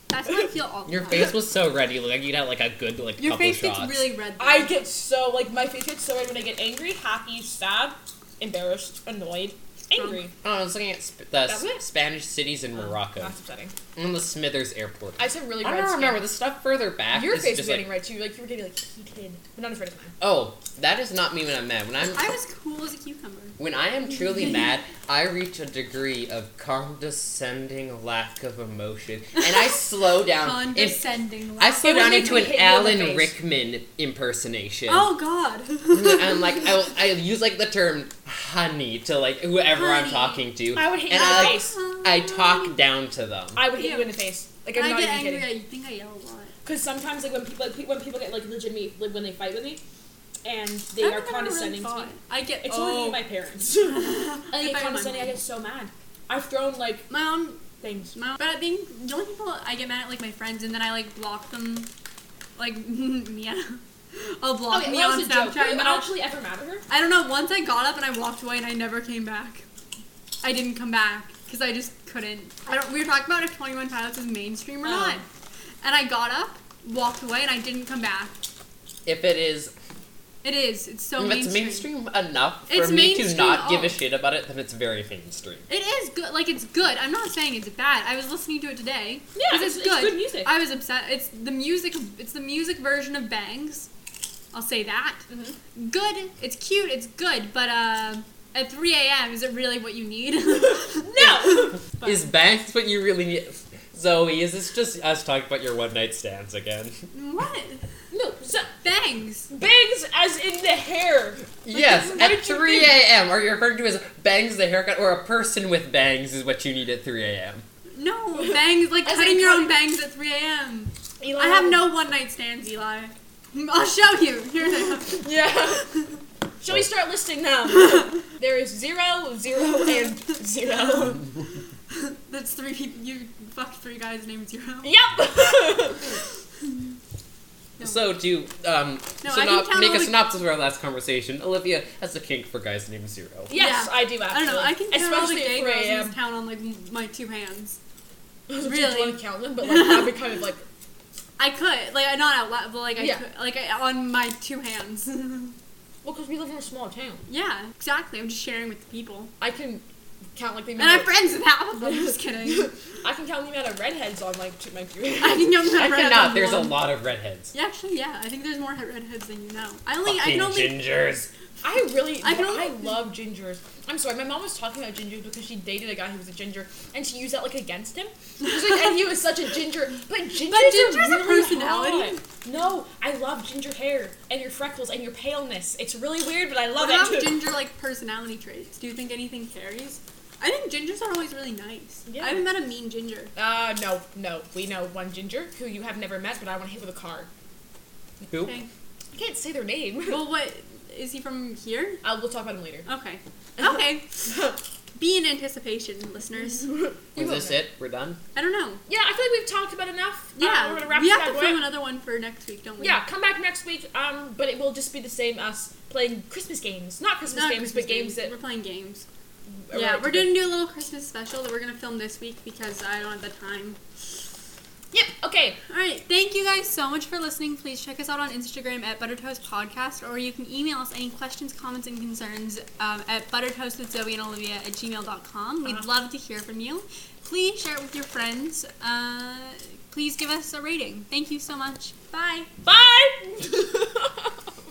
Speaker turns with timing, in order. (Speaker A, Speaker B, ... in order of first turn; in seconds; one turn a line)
Speaker A: 0.1-1.3
Speaker B: 0.9-4.0
Speaker A: 3.2-4.8
Speaker C: 4.4-10.3
Speaker A: 9.9-10.2
Speaker B: 10.4-13.3
Speaker C: 11.4-11.8
Speaker C: 12.7-13.7
Speaker B: 13.9-17.9
Speaker C: 15.2-16.2
Speaker C: 17.1-20.1
Speaker B: 20.2-22.2
Speaker A: 22.1-23.6
Speaker B: 23.6-31.0
Speaker A: 29.4-29.7
Speaker A: 30.3-32.5
Speaker B: 31.6-35.1
Speaker C: 31.8-33.3
Speaker A: 34.9-36.9
Speaker B: 35.9-43.6
Speaker A: 39.7-40.4
Speaker C: 40.7-41.7
Speaker A: 41.1-42.8
Speaker C: 43.5-45.5
Speaker A: 43.7-44.1
Speaker A: 44.7-46.5
Speaker C: 46.6-49.8
Speaker C: 50.4-52.1
Speaker A: 51.0-53.2
Speaker C: 52.6-57.1
Speaker A: 53.9-55.4
Speaker A: 57.1-57.6
Speaker C: 57.8-58.2
Speaker A: 58.1-61.9
Speaker A: 62.5-66.1
Speaker C: 64.7-66.8
Speaker A: 66.9-69.6
Speaker A: 70.4-75.2
Speaker C: 74.8-75.2
Speaker A: 75.8-78.3
Speaker B: 79.0-79.7
Speaker A: 80.4-81.9
Speaker B: 81.2-85.7
Speaker A: 82.7-84.0
Speaker A: 85.7-93.9
Speaker C: 89.3-90.6
Speaker A: 94.5-95.2
Speaker C: 95.3-95.6
Speaker A: 95.8-102.3
Speaker C: 100.8-101.8
Speaker B: 101.8-107.0
Speaker A: 107.1-107.8
Speaker C: 108.1-108.7
Speaker A: 108.8-109.5
Speaker C: 109.5-112.9
Speaker B: 111.6-117.6
Speaker A: 111.7-112.3
Speaker A: 117.9-125.3
Speaker C: 119.0-119.8
Speaker C: 121.2-121.8
Speaker C: 125.2-125.9
Speaker C: 126.6-131.2
Speaker A: 131.9-135.9
Speaker C: 134.8-136.1
Speaker B: 137.8-143.5
Speaker A: 139.2-140.2
Speaker C: 143.5-146.2
Speaker A: 143.5-147.8
Speaker C: 148.5-150.6
Speaker A: 148.6-150.1
Speaker A: 151.4-155.5
Speaker C: 153.0-153.2
Speaker C: 156.0-157.2
Speaker A: 157.3-159.3
Speaker C: 159.4-159.8
Speaker C: 160.3-161.2
Speaker A: 160.8-162.7
Speaker C: 161.8-165.7
Speaker A: 165.2-166.8
Speaker B: 165.8-167.5
Speaker A: 167.5-170.8
Speaker B: 170.0-171.3
Speaker C: 171.6-187.4
Speaker A: 172.2-172.8
Speaker A: 180.4-182.2
Speaker A: 186.8-193.3
Speaker C: 192.1-192.4
Speaker C: 193.3-197.3
Speaker B: 198.3-198.6
Speaker A: 198.4-198.7
Speaker C: 199.1-200.2
Speaker A: 200.1-202.0
Speaker C: 202.0-202.8
Speaker A: 202.8-204.3
Speaker C: 203.6-204.6
Speaker A: 204.9-206.7
Speaker C: 206.6-207.6
Speaker B: 207.2-208.2
Speaker A: 208.3-208.8
Speaker C: 208.9-211.6
Speaker A: 210.3-213.0
Speaker C: 212.8-218.3
Speaker A: 217.3-219.0
Speaker C: 219.7-220.3
Speaker A: 219.7-223.8
Speaker C: 224.9-225.6
Speaker A: 225.7-242.5
Speaker C: 242.6-244.3